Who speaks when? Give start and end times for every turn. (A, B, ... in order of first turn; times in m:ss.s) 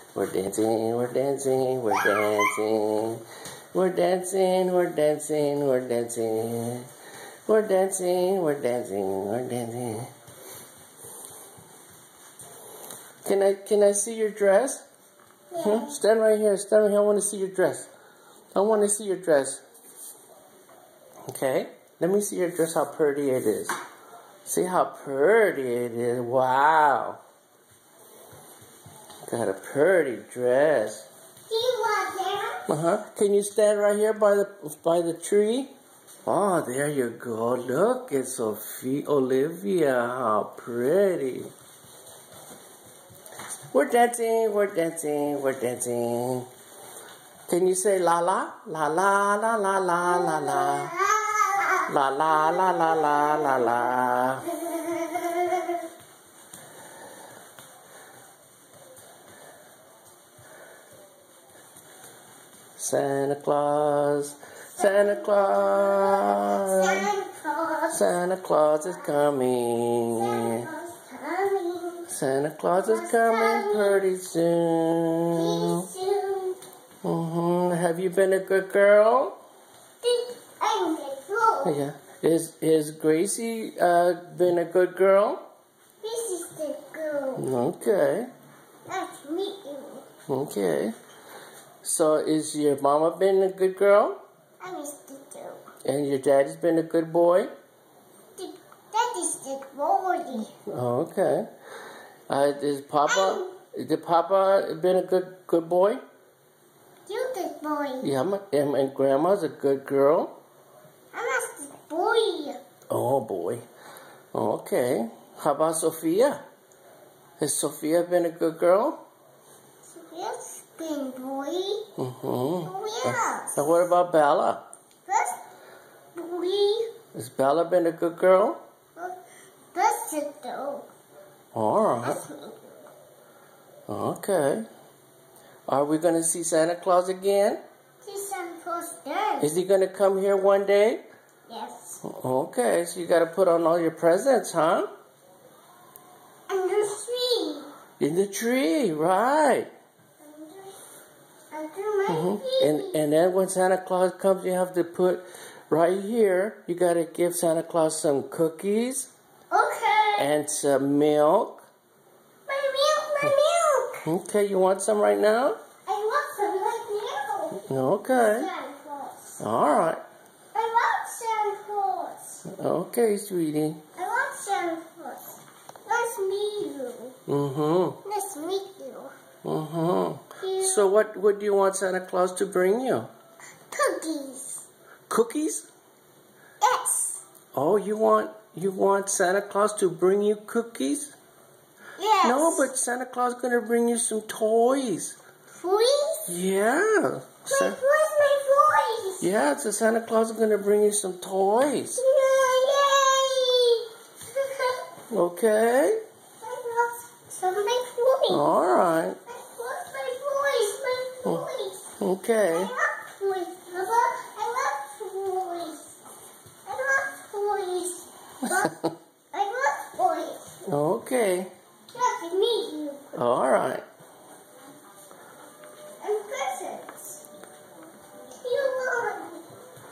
0:00.2-0:06.9 A
0:07.5-0:10.1 A
0:13.2-0:14.8 A
0:15.5-0:16.0 B
0:15.6-0:17.9 A
0:18.5-0:19.6 A
0:21.3-0:23.8 A
0:24.5-0:27.2 A
0:29.3-0:31.1 A
0:31.5-0:32.6 B
0:32.7-0:41.5 A
0:43.7-0:46.5 A
0:47.5-0:51.0 A
0:50.0-0:53.7 B
0:51.9-0:54.5 A
0:54.5-0:55.8 B
1:02.8-1:07.1 A
1:04.8-1:08.0 B
1:07.9-1:10.7 A
1:10.1-1:12.1 B
1:12.1-1:15.9 A
1:12.8-1:14.0 B
1:15.3-1:16.6 B
1:17.0-1:19.4 A
1:20.0-1:21.8 B
1:21.6-1:25.4 A
1:26.0-1:27.4 B
1:27.4-1:28.3 A
1:28.9-1:30.1 B
1:30.3-1:31.0 A
1:31.8-1:34.2 A
1:34.6-1:35.6 B
1:35.8-1:37.5 A
1:38.4-1:40.5 B
1:40.5-1:41.5 A
1:42.3-1:46.0 A
1:43.0-1:43.5 B
1:47.1-1:48.1 B
1:48.0-1:50.3 A
1:51.1-1:52.6 B
1:52.9-1:53.6 A
1:54.3-1:56.4 A
1:57.4-1:59.0 A
1:59.9-2:01.9 B
2:02.0-2:04.6 A
2:02.6-2:03.6 B
2:05.1-2:05.4 B
2:06.2-2:06.9 B
2:07.1-2:08.6 A
2:09.7-2:10.9 B
2:11.5-2:12.2 A
2:12.0-2:12.9 B
2:13.9-2:14.7 A
2:15.7-2:17.6 A
2:18.0-2:19.5 B
2:19.4-2:21.0 A
2:21.5-2:22.0 B
2:22.0-2:24.9 A
2:26.5-2:27.7 B
2:28.0-2:29.7 A
2:30.2-2:30.8 B
2:31.5-2:33.0 B
2:32.1-2:39.1 A
2:39.5-2:40.3 B
2:40.2-2:41.7 A
2:42.5-2:44.0 B
2:44.0-2:45.6 A
2:45.9-2:49.4 B
2:47.6-2:48.5 A
2:49.4-2:50.0 A
2:50.5-2:52.4 B
2:52.4-2:53.8 A
2:54.0-2:57.2 B
2:57.3-2:58.0 A
2:58.0-2:59.1 B
2:59.4-3:03.1 A
3:00.4-3:00.9 B
3:03.7-3:04.6 B
3:05.1-3:05.7 A
3:06.6-3:07.2 B
3:07.5-3:11.2 A
3:12.0-3:12.7 B
3:12.2-3:15.2 A
3:15.6-3:16.3 B
3:16.3-3:17.8 A
3:17.5-3:19.3 B
3:19.2-3:22.0 A
3:22.0-3:24.8 B
3:25.1-3:26.0 A
3:26.4-3:28.5 B
3:28.3-3:29.2 A
3:29.3-3:31.9 B
3:32.0-3:32.7 A
3:32.5-3:35.9 B
3:36.7-3:40.5 B
3:40.6-3:41.5 A
3:41.9-3:43.1 B
3:43.1-3:43.8 A
3:46.0-3:47.2 B
3:48.4-3:49.4 B